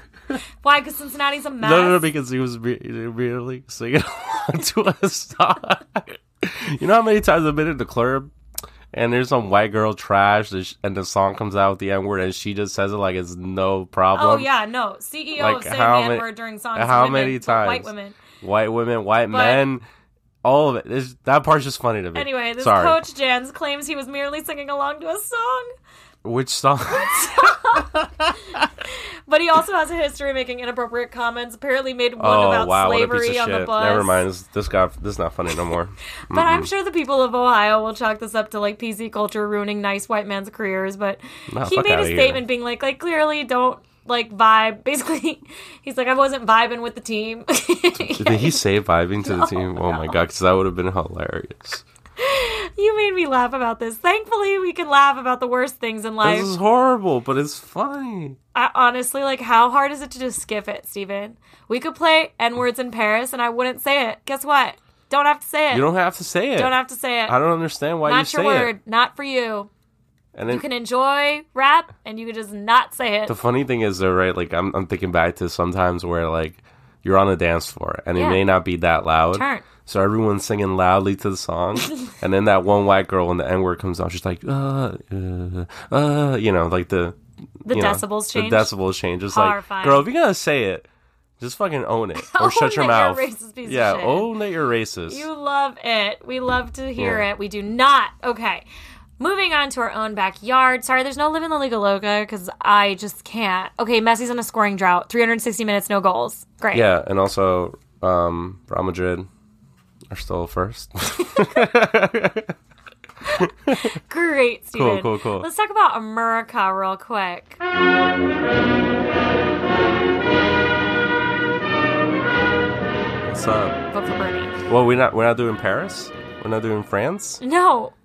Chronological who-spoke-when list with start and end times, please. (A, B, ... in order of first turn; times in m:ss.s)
0:00.6-0:02.0 A
0:01.6-0:08.3 B
0:08.9-0:14.5 B
0:14.1-0:18.2 A
0:15.4-0:17.9 B
0:18.4-0:19.8 B
0:19.3-0:19.7 A
0:20.4-0:23.0 B
0:22.1-0:25.7 A
0:26.2-0:28.6 B
0:26.9-0:28.0 A
0:28.9-0:34.2 A
0:32.2-0:36.7 B
0:36.3-0:48.6 A
0:41.5-0:42.4 B
0:48.1-0:51.8 B
0:49.2-0:50.2 A
0:52.2-0:56.5 A
0:56.2-0:58.4 B
0:58.5-1:05.9 A
1:05.7-1:08.7 B
1:06.5-1:07.4 A
1:08.0-1:09.7 A
1:10.3-1:10.6 B
1:10.5-1:13.4 A
1:13.3-1:30.9 B
1:18.1-1:18.4 A
1:19.3-1:19.6 A
1:27.6-1:28.7 A
1:29.3-1:30.1 A
1:31.4-1:35.2 B
1:32.2-1:34.3 A
1:35.1-1:38.6 A
1:37.0-1:37.2 B
1:39.2-1:46.9 A
1:46.7-1:49.3 B
1:50.1-1:52.5 B
1:51.3-1:51.6 A
1:53.4-1:53.9 B
1:53.8-1:57.6 A
1:54.7-1:55.5 B
2:03.2-2:03.8 B
2:03.9-2:04.6 A
2:04.7-2:07.4 B
2:07.4-2:07.9 A